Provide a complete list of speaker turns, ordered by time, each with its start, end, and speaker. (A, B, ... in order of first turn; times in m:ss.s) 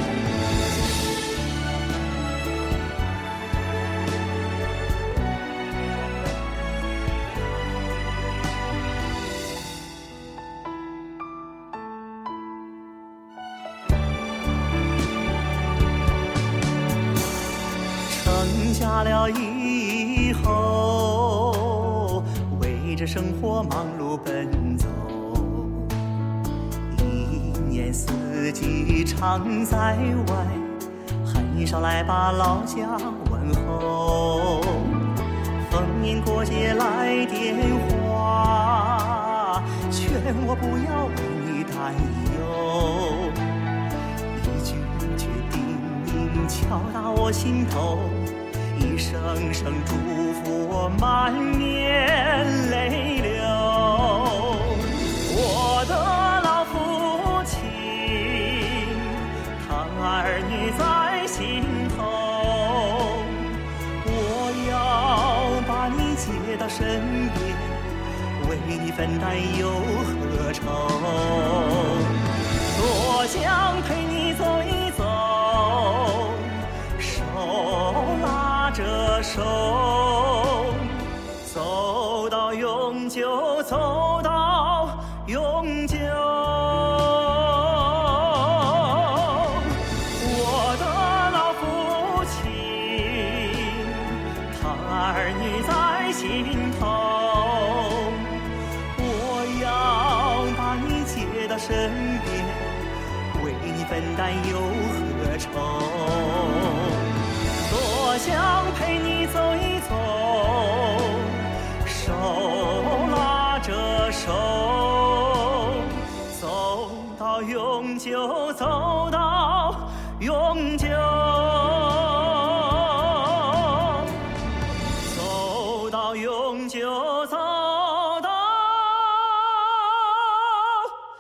0:18.1-0:26.0 A
0:26.9-0:35.0 A
0:35.6-0:43.7 A
0:44.3-1:47.1 A
1:47.6-2:04.2 A
2:05.0-2:10.9 A